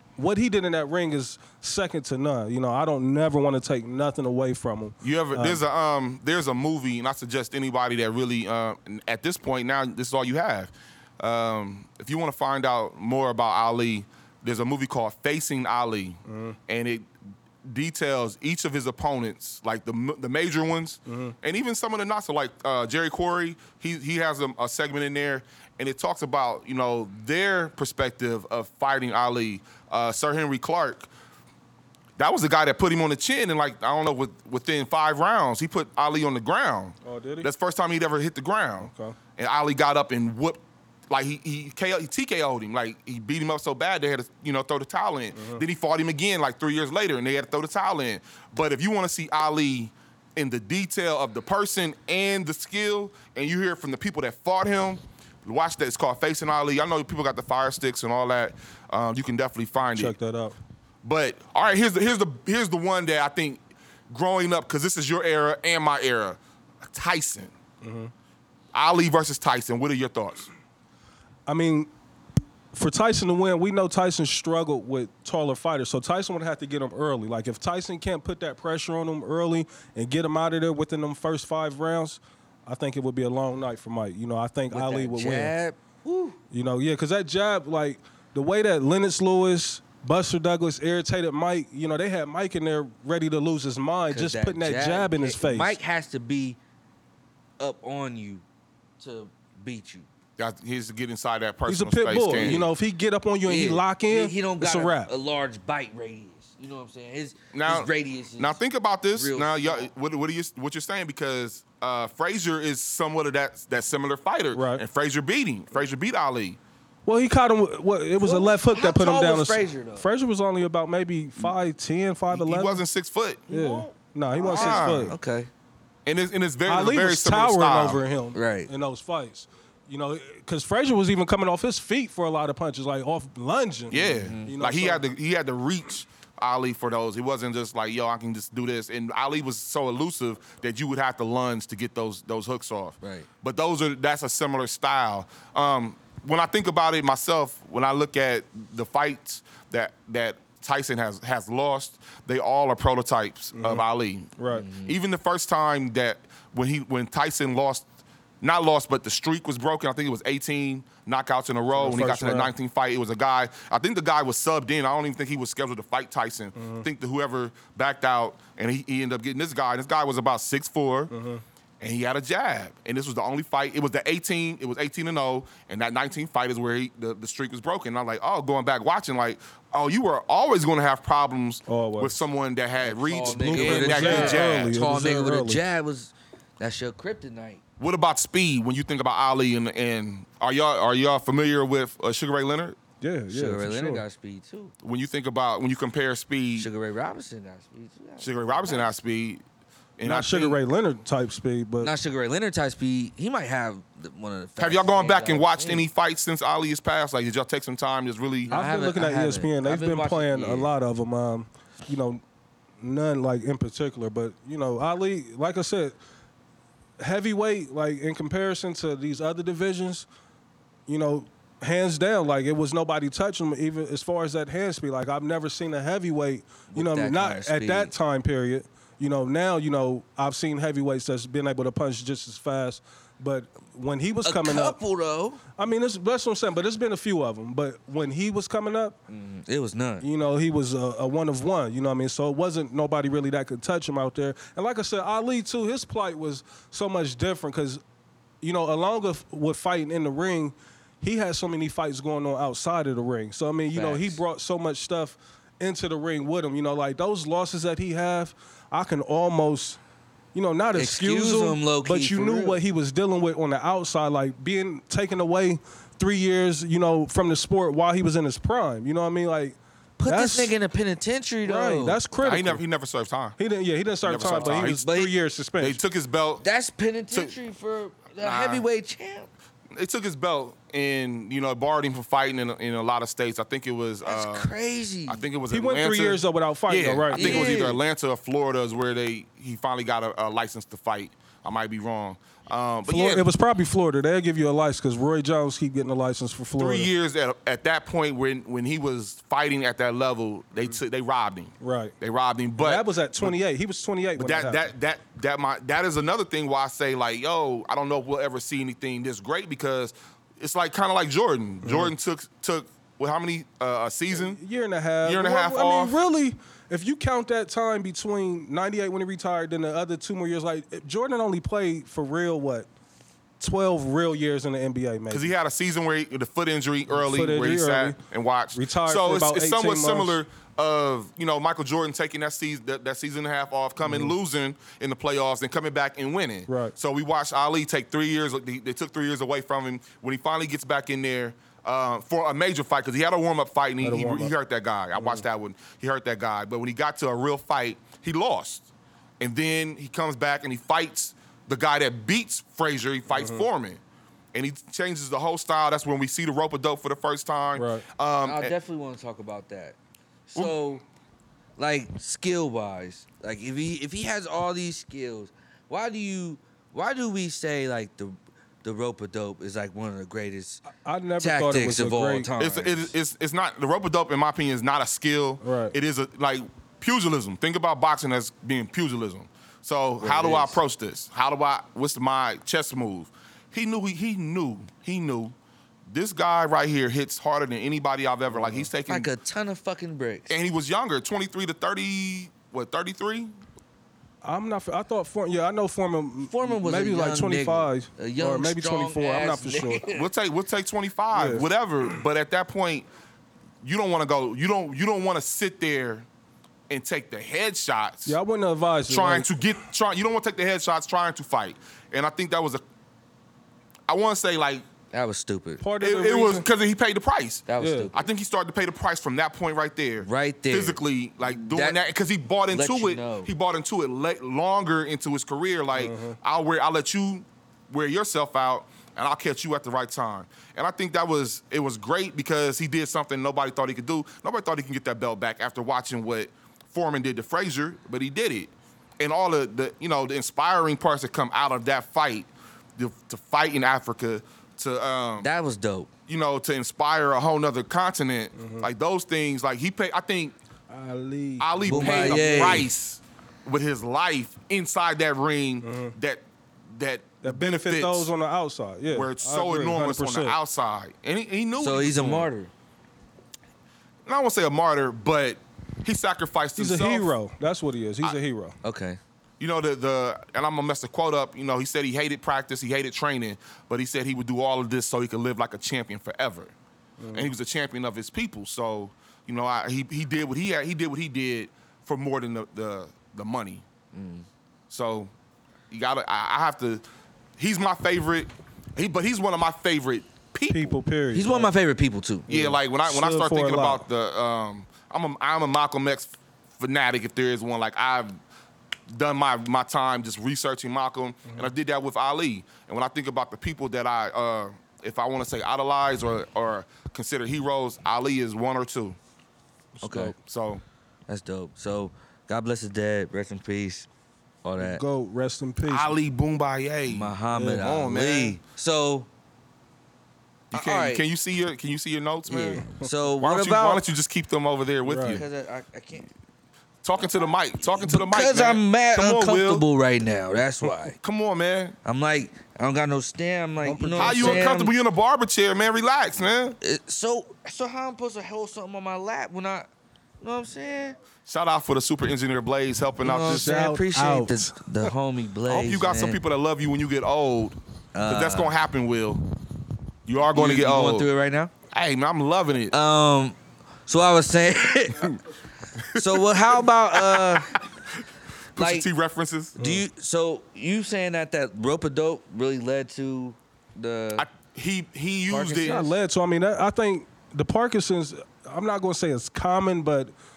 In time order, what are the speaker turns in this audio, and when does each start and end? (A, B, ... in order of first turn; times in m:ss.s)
0:00.2-0:05.6 A
0:05.0-0:17.1 B
0:16.3-0:16.6 A
0:17.6-0:31.1 B
0:21.1-0:21.3 A
0:32.2-1:00.1 B
0:37.0-0:37.5 A
0:38.8-0:39.2 A
0:45.3-0:45.6 A
1:00.0-1:00.6 A
1:01.0-1:07.5 B
1:07.8-1:08.1 A
1:08.7-1:10.5 B
1:11.5-1:11.9 A
1:12.7-1:25.5 A
1:24.7-1:26.4 C
1:26.5-1:35.8 A
1:34.1-1:36.6 C
1:37.6-1:38.4 C
1:39.0-1:40.1 C
1:40.4-1:42.7 B
1:41.7-1:45.1 A
1:42.4-1:42.6 C
1:43.4-1:48.6 C
1:47.5-1:56.6 B
1:49.1-1:49.9 C
1:54.5-1:54.8 A
1:57.0-2:02.8 A
1:58.2-2:00.1 C
2:02.3-2:03.4 B
2:03.5-2:05.5 C
2:03.5-2:05.1 A
2:04.5-2:05.1 B
2:06.0-2:08.0 B
2:06.7-2:15.0 A
2:08.3-2:08.7 C
2:13.9-2:34.3 B
2:14.2-2:14.6 C
2:23.0-2:23.3 C
2:33.5-2:33.8 A
2:34.4-2:34.7 A
2:34.5-2:35.0 C
2:34.8-2:37.8 B
2:38.4-2:51.1 B
2:41.7-2:42.5 A
2:46.6-2:46.8 A
2:51.1-2:51.4 A
2:51.8-3:04.8 B
3:01.7-3:02.1 A
3:02.8-3:07.6 C
3:03.2-3:05.6 A
3:07.8-3:12.8 B
3:13.0-3:14.0 A
3:13.3-3:14.7 C
3:14.8-3:16.7 B
3:16.6-3:18.9 C
3:18.2-3:19.4 B
3:20.0-3:20.6 B
3:20.0-3:21.9 A
3:21.8-3:25.8 C
3:24.6-3:28.5 B
3:28.4-3:30.7 C
3:28.5-3:32.2 A
3:32.8-3:36.0 A
3:37.0-3:40.0 A
3:40.9-3:54.8 A
3:46.7-3:47.9 C
3:54.2-3:55.4 C
3:55.6-3:59.0 A
3:59.1-4:00.0 C
4:00.0-4:07.8 A
4:08.4-4:19.8 A
4:13.7-4:14.2 C
4:20.3-4:30.5 A
4:20.7-4:22.6 C
4:30.0-4:32.0 C
4:31.4-4:32.6 A
4:32.2-4:33.4 B
4:33.4-4:35.8 A
4:34.0-4:34.8 B
4:34.2-4:35.1 C
4:35.6-4:36.4 B
4:36.4-4:39.3 C
4:38.2-4:38.6 B
4:39.7-4:44.5 B
4:44.0-4:45.2 C
4:45.1-4:53.2 B
4:45.5-4:47.6 A
4:47.1-4:47.8 C
4:52.9-4:56.9 A
4:56.6-5:03.4 B
5:01.6-5:01.9 A
5:02.6-5:04.6 A
5:04.2-5:14.4 B
5:11.6-5:11.9 A
5:14.1-5:22.7 A
5:15.0-5:16.0 B
5:23.4-5:25.3 A
5:25.1-5:48.7 B
5:26.9-5:28.0 A
5:28.5-5:30.2 A
5:33.8-5:34.1 A
5:36.5-5:36.7 A
5:43.8-5:44.3 A
5:44.9-5:45.2 A
5:49.2-5:53.8 B
5:53.1-5:53.5 A
5:54.3-5:58.5 B
5:57.6-5:57.8 A
5:58.2-5:59.8 C
6:00.3-6:00.8 C
6:01.6-6:10.6 C
6:10.8-6:12.3 A
6:11.2-6:12.9 C
6:12.4-6:25.3 B
6:15.4-6:15.7 A
6:20.0-6:20.6 C
6:25.9-6:29.1 B
6:28.3-6:28.7 A
6:28.9-6:30.3 C
6:30.3-6:33.3 B
6:34.2-6:39.8 A
6:36.3-6:40.1 C
6:39.9-6:42.8 B
6:41.1-6:41.4 A
6:43.6-6:46.1 B
6:46.7-6:48.2 B
6:48.0-6:49.3 A
6:48.9-6:52.6 B
6:53.9-6:54.6 B
6:54.9-6:55.6 C
6:55.6-6:56.4 A
6:55.8-7:25.3 B
6:57.5-6:58.0 C
6:57.6-6:57.9 A
7:00.0-7:01.8 C
7:02.5-7:03.3 C
7:05.7-7:06.2 A
7:25.2-7:25.9 C
7:26.1-7:30.4 B
7:28.4-7:28.7 A
7:30.7-7:32.6 A
7:31.4-7:38.1 B
7:31.7-7:32.7 C
7:35.6-7:35.9 A
7:37.2-7:40.4 A
7:38.9-7:42.3 B
7:41.6-7:42.5 C
7:44.0-7:47.1 B
7:46.6-7:48.6 A
7:48.6-7:49.0 C
7:49.4-7:56.5 B
7:57.0-7:57.3 A
7:57.1-8:03.6 B
8:03.9-8:04.3 C
8:04.7-8:05.1 B
8:05.7-8:06.8 B
8:07.4-8:10.8 B
8:10.5-8:11.5 A
8:11.1-8:12.3 C
8:12.3-8:13.8 A
8:12.3-8:18.1 B
8:18.9-8:29.0 B
8:29.8-8:30.1 A
8:29.8-8:30.1 C
8:30.1-8:30.6 B
8:31.1-8:33.9 C
8:34.4-8:34.8 C
8:34.6-8:35.9 A
8:35.6-8:38.4 B
8:36.9-8:39.1 C
8:37.3-8:37.6 A
8:40.5-8:42.7 B
8:40.5-8:41.0 C
8:42.3-8:43.8 C
8:43.2-8:45.2 B
8:44.8-8:45.2 A
8:45.0-8:46.1 C
8:46.8-8:49.6 B
8:47.7-8:51.0 C
8:51.0-8:51.8 B
8:51.8-8:54.7 C
8:53.6-8:54.5 A
8:54.0-8:56.6 B
8:56.6-8:59.7 C
9:00.2-9:01.0 C
9:01.2-9:03.5 B
9:03.0-9:06.2 C
9:03.2-9:04.7 A
9:05.5-9:09.2 B
9:07.9-9:08.5 C
9:10.0-9:11.1 B
9:10.3-9:11.5 C
9:11.7-9:12.7 B
9:12.7-9:13.4 C
9:13.9-9:15.2 C
9:15.8-9:17.6 B
9:15.9-9:17.6 C
9:18.6-9:19.6 B
9:18.6-9:18.9 C
9:19.6-9:24.3 C
9:19.6-9:19.8 A
9:24.2-9:25.8 B
9:25.3-9:25.9 C
9:25.6-9:30.1 A